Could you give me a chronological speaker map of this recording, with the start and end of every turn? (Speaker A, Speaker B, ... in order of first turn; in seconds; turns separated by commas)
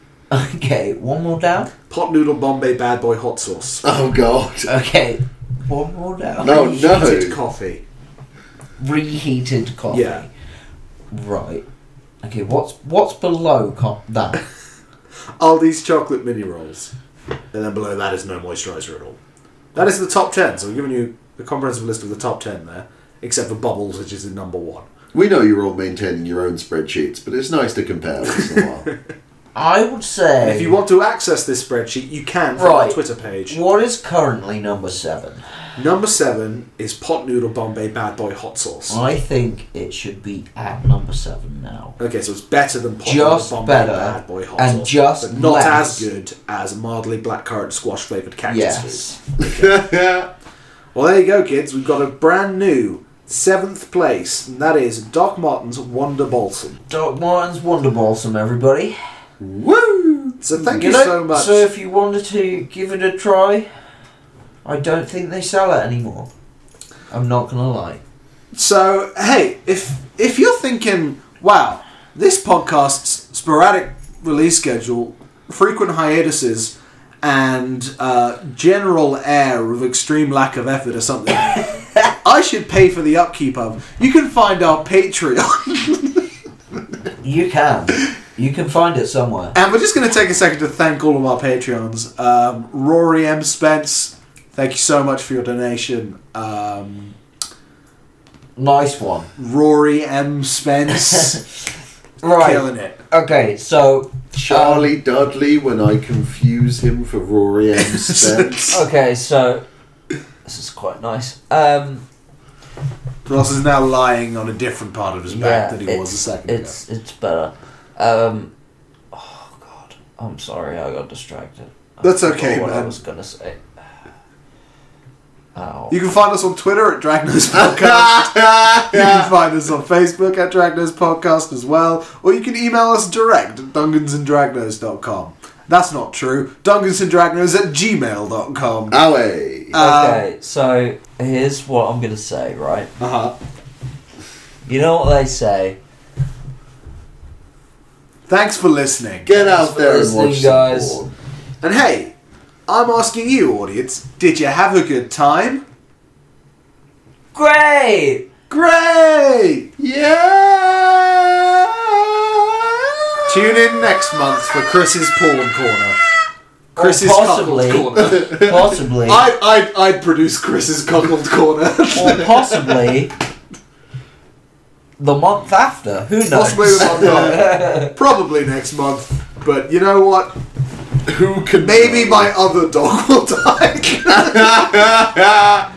Speaker A: 0.3-1.7, Speaker B: 1.9-3.8, Speaker C: 3.8-4.7, Speaker A: 4.7-7.1, Speaker C: 6.4-7.4, Speaker B: 6.7-7.8, Speaker A: 8.8-10.3, Speaker B: 9.9-10.2, Speaker A: 11.1-11.6, Speaker A: 12.2-14.4, Speaker B: 15.4-16.9, Speaker B: 17.5-19.2, Speaker B: 19.8-24.9, Speaker C: 25.1-28.9, Speaker A: 29.6-30.8, Speaker B: 30.4-33.6, Speaker A: 32.6-35.4, Speaker B: 35.8-39.0, Speaker A: 38.9-42.0, Speaker B: 42.0-49.0, Speaker A: 43.0-46.0, Speaker A: 48.5-49.2, Speaker C: 49.4-50.3, Speaker B: 51.0-56.8, Speaker A: 56.9-59.0, Speaker C: 59.4-60.4, Speaker B: 60.4-61.7, Speaker A: 60.7-63.7, Speaker A: 64.7-66.3, Speaker A: 67.1-68.0, Speaker B: 68.5-86.2, Speaker A: 87.2-89.5, Speaker B: 89.5-97.2, Speaker A: 98.6-99.3, Speaker B: 99.4-101.4, Speaker A: 102.2-104.9, Speaker B: 102.4-103.0, Speaker C: 104.3-108.8, Speaker B: 108.0-108.8, Speaker A: 108.7-109.6, Speaker A: 110.5-112.0, Speaker B: 113.3-116.8, Speaker A: 115.3-118.5, Speaker A: 119.1-123.6, Speaker B: 122.0-122.9, Speaker A: 125.5-126.0, Speaker B: 125.9-139.0, Speaker C: 127.6-129.3, Speaker C: 138.9-139.8, Speaker B: 139.7-140.3, Speaker A: 139.8-142.9, Speaker B: 143.0-143.3, Speaker A: 144.7-145.8, Speaker B: 148.3-149.3, Speaker C: 149.2-151.1, Speaker A: 149.3-151.0, Speaker B: 151.6-152.1, Speaker B: 152.7-155.6, Speaker A: 157.3-158.3, Speaker B: 158.5-159.7, Speaker C: 159.8-163.8, Speaker B: 163.3-166.0, Speaker A: 166.8-169.2, Speaker B: 166.8-172.8, Speaker C: 168.0-168.6, Speaker A: 171.9-173.1, Speaker A: 175.0-177.9, Speaker B: 176.3-180.3, Speaker C: 177.0-177.3, Speaker C: 181.1-182.3, Speaker B: 181.6-184.6, Speaker C: 184.1-185.7